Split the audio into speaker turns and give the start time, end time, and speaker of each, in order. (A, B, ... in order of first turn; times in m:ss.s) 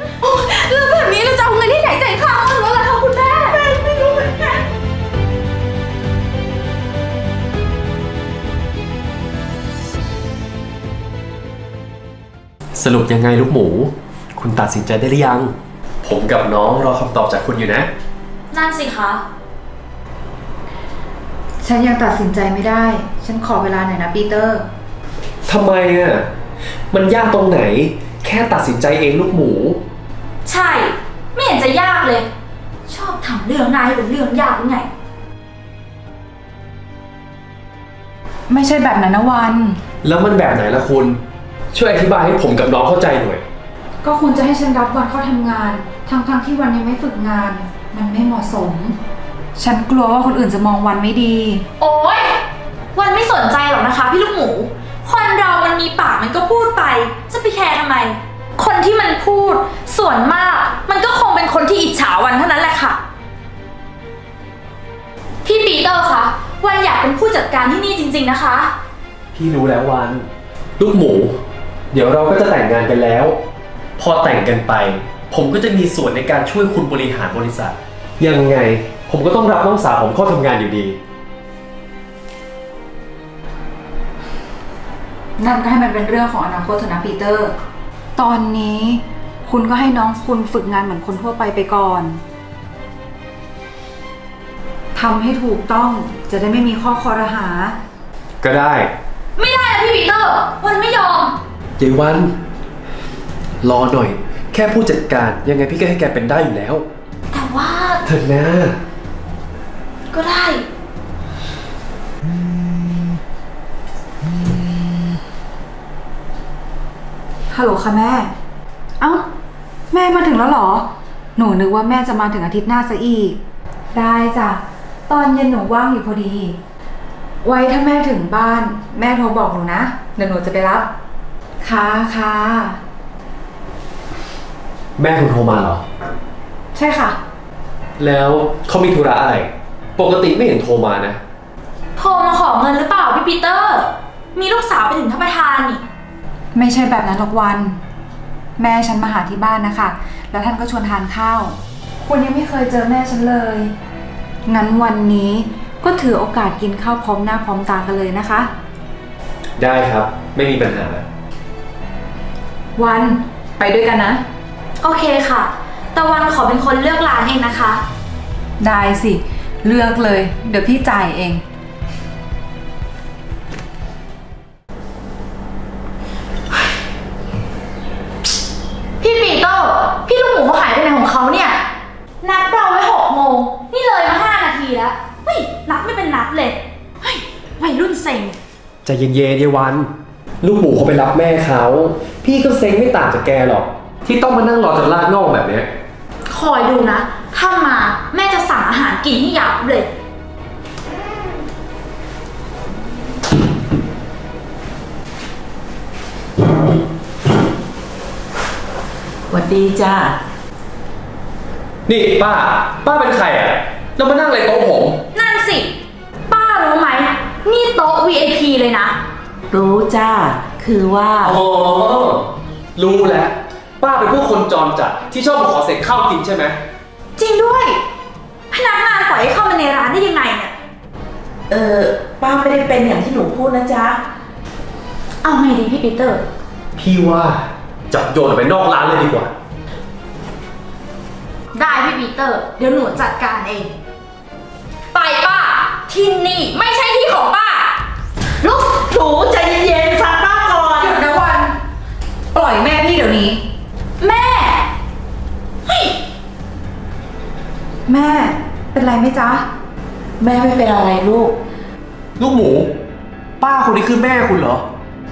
0:00.4-0:02.4 A
0:02.4-0:03.1 B
0:03.3-0:04.6 C
0:12.8-0:17.9 D
0:18.5-0:19.2 B
0:21.6-0:24.7 A
0:25.5-0:26.3 D
0:26.9-0:29.8 D
0:30.4-0:32.3 B
0:32.9-0:34.9 B
0:38.5-0:39.8 A
0:40.0-0:41.2 D
0:41.7-0:43.4 D
0:44.0-0:49.0 A
0:49.6-0:51.6 A
0:51.8-0:52.4 B
0:52.9-1:03.0 B
1:05.4-1:08.7 B
1:09.4-1:10.3 D
1:10.8-1:11.4 D
1:11.9-1:13.4 D
1:14.0-1:21.0 D
1:25.4-1:27.5 A
1:28.2-1:32.2 A
1:34.9-1:37.8 A
1:38.4-1:38.9 D
1:39.4-1:41.4 B
1:41.8-1:42.3 D
1:43.6-1:46.8 D
1:47.3-1:48.0 B
1:48.0-1:48.8 D
1:50.1-1:50.7 B
1:57.5-1:58.3 A
1:59.0-1:59.3 A
1:59.9-2:03.4 A
2:03.9-2:06.6 A
2:07.4-2:10.9 A
2:11.6-2:12.8 A
2:15.0-2:15.8 D
2:16.7-2:17.2 A
2:18.0-2:21.2 D
2:22.0-2:25.8 B
2:26.5-2:27.8 A
2:28.6-2:33.7 A
2:34.5-2:38.5 A
2:39.6-2:41.0 D
2:42.8-2:44.2 A
2:44.8-2:47.8 B
2:48.6-2:51.4 A
2:59.0-3:01.6 B
3:02.2-3:08.4 B
3:08.8-3:09.9 D
3:10.4-3:15.7 D
3:16.3-3:19.9 B
3:29.3-3:30.2 C
3:31.9-3:35.0 D
3:35.1-3:35.7 B
3:36.3-3:39.0 B
3:39.5-3:41.4 C
3:41.2-3:46.6 D
3:47.2-3:47.8 B
3:48.5-3:50.5 B
3:51.5-3:54.0 C
3:55.2-3:56.3 B
3:56.8-3:59.3 D
4:01.5-4:03.7 B
4:04.9-4:07.8 B
4:08.4-4:08.7 B
4:08.7-4:11.0 C
4:10.8-4:11.6 A
4:12.3-4:13.4 A
4:14.0-4:14.7 B
4:15.7-4:16.0 B
4:17.9-4:19.4 A
4:20.2-4:21.4 C
4:22.2-4:22.7 D
4:23.4-4:24.6 D